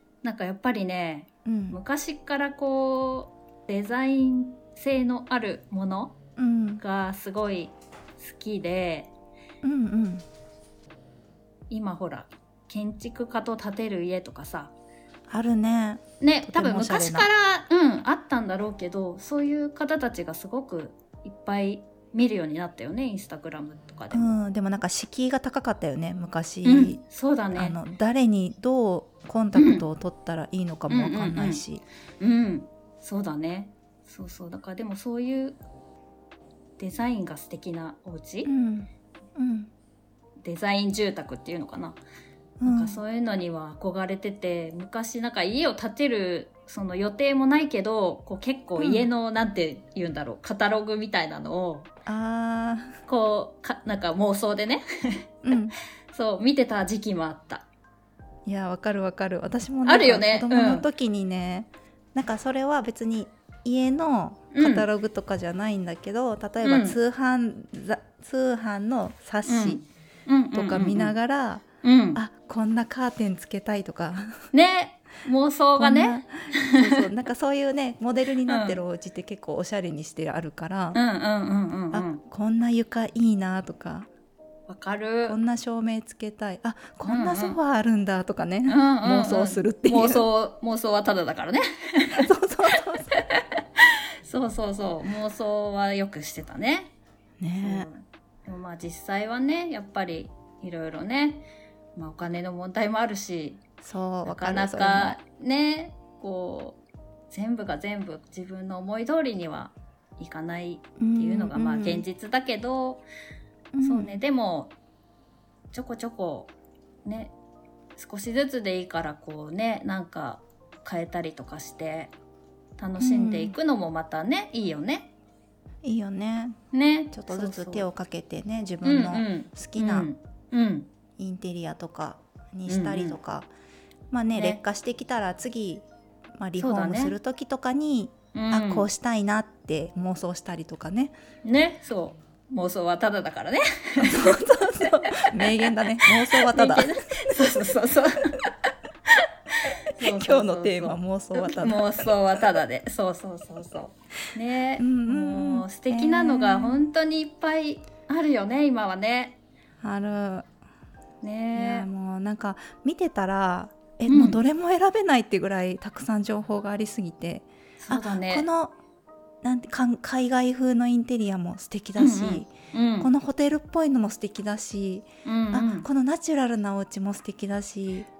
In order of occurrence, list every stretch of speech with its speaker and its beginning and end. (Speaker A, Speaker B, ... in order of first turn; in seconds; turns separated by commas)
Speaker A: 0.2-6.2, Speaker B: 1.4-1.8, Speaker B: 6.4-6.8, Speaker A: 6.8-9.1, Speaker B: 9.6-10.2, Speaker A: 11.7-14.7, Speaker B: 15.3-17.3, Speaker A: 16.2-24.3, Speaker B: 24.1-27.0, Speaker A: 26.6-27.8, Speaker B: 27.5-31.8, Speaker A: 29.5-29.8, Speaker A: 30.9-31.6, Speaker A: 32.2-35.6, Speaker A: 36.8-38.5, Speaker B: 38.5-39.7, Speaker A: 40.4-42.0, Speaker B: 42.6-43.0, Speaker A: 42.6-51.9, Speaker B: 48.8-49.1, Speaker B: 52.0-53.0, Speaker A: 53.1-55.6, Speaker B: 55.4-55.7, Speaker A: 56.1-57.6, Speaker B: 58.5-69.8, Speaker A: 59.8-60.9, Speaker A: 64.5-64.8, Speaker A: 66.6-67.0, Speaker A: 69.5-71.1, Speaker B: 70.5-74.4, Speaker A: 71.8-72.2, Speaker A: 74.5-77.0, Speaker B: 75.8-81.0, Speaker A: 78.5-78.8, Speaker A: 80.9-82.2, Speaker B: 81.9-84.1, Speaker A: 84.7-85.4, Speaker B: 85.2-90.2, Speaker A: 87.0-87.6, Speaker A: 88.7-92.3, Speaker B: 92.2-93.2, Speaker A: 93.1-96.9, Speaker B: 97.4-97.9, Speaker A: 97.6-101.4, Speaker A: 102.0-103.6, Speaker B: 103.8-105.2, Speaker A: 104.2-113.0, Speaker B: 111.0-112.0, Speaker B: 113.7-114.2, Speaker A: 113.8-114.7, Speaker A: 115.7-116.5, Speaker A: 117.0-117.3, Speaker A: 118.0-122.1, Speaker A: 122.8-125.1, Speaker B: 123.0-123.5, Speaker B: 125.8-126.6, Speaker A: 126.7-127.9, Speaker B: 127.1-130.1, Speaker A: 128.8-130.9, Speaker B: 131.2-133.5, Speaker A: 132.7-133.2, Speaker B: 134.1-135.8, Speaker A: 134.3-134.6, Speaker B: 136.4-141.1, Speaker A: 136.6-137.2, Speaker A: 138.3-138.9, Speaker A: 141.4-144.4, Speaker B: 144.0-146.9, Speaker A: 145.0-145.5, Speaker A: 146.0-148.5, Speaker A: 149.1-159.4, Speaker B: 150.0-152.1, Speaker B: 154.8-156.8, Speaker B: 159.8-160.5, Speaker A: 161.2-161.9, Speaker B: 161.5-168.7, Speaker A: 164.1-164.4, Speaker A: 167.8-168.5, Speaker B: 169.4-178.1, Speaker A: 172.0-173.1, Speaker A: 175.2-175.9